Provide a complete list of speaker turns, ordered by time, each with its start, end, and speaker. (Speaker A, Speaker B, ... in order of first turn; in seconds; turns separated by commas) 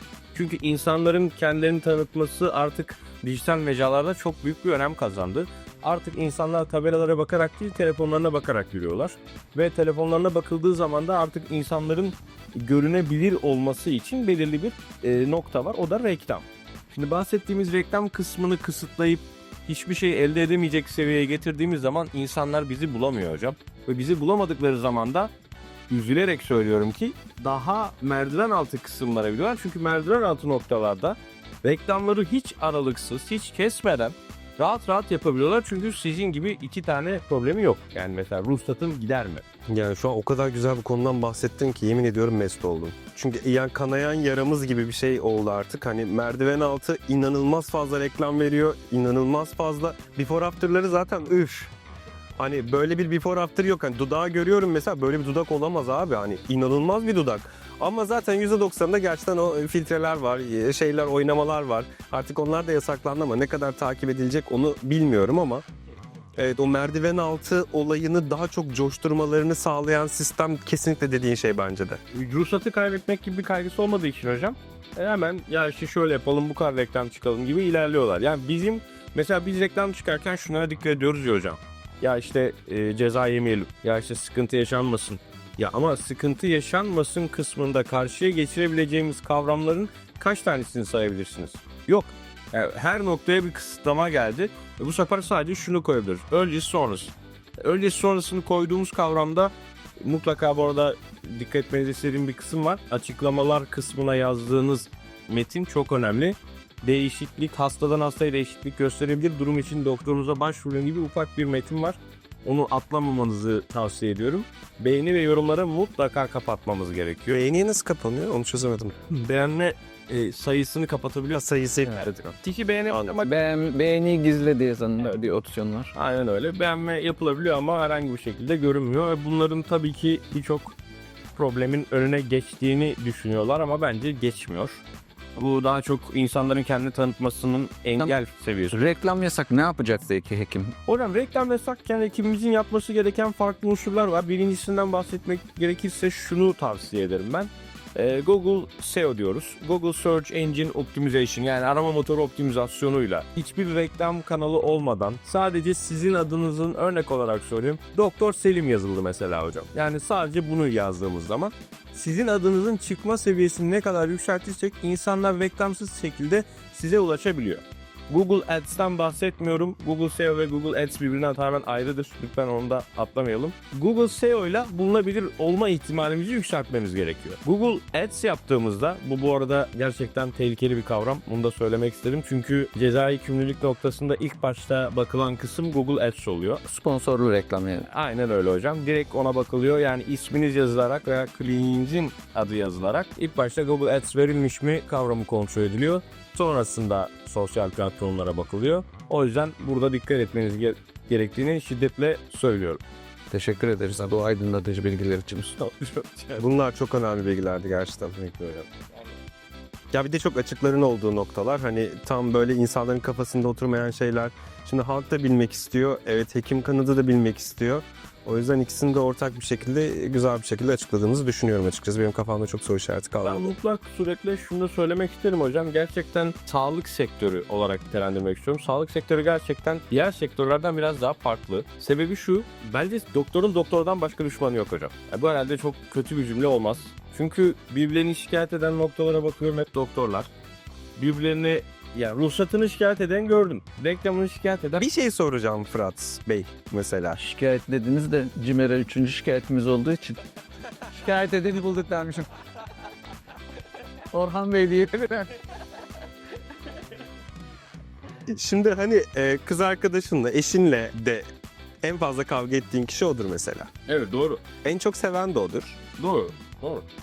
Speaker A: 0.3-25.3, Speaker A: 25.9-39.4, Speaker B: 39.7-51.7, Speaker B: 52.4-65.6, Speaker B: 66.4-72.0, Speaker A: 72.1-117.4, Speaker B: 117.3-119.1, Speaker A: 119.1-123.3, Speaker B: 121.3-122.2, Speaker B: 122.9-123.2, Speaker C: 123.2-125.9, Speaker A: 125.9-130.8, Speaker A: 131.3-134.8, Speaker A: 135.3-138.8, Speaker C: 138.7-140.7, Speaker A: 140.8-186.6, Speaker C: 186.7-187.9, Speaker A: 187.9-202.8, Speaker C: 203.3-205.6, Speaker A: 205.6-206.4, Speaker B: 206.4-208.1, Speaker A: 208.2-208.7, Speaker B: 209.9-223.5, Speaker A: 223.2-240.3, Speaker A: 241.0-244.8, Speaker B: 244.8-247.2, Speaker C: 247.2-250.2, Speaker C: 250.9-252.3, Speaker C: 254.1-255.3, Speaker B: 258.3-261.2, Speaker B: 261.8-263.7, Speaker A: 263.9-264.4, Speaker B: 264.6-265.8, Speaker A: 265.9-266.8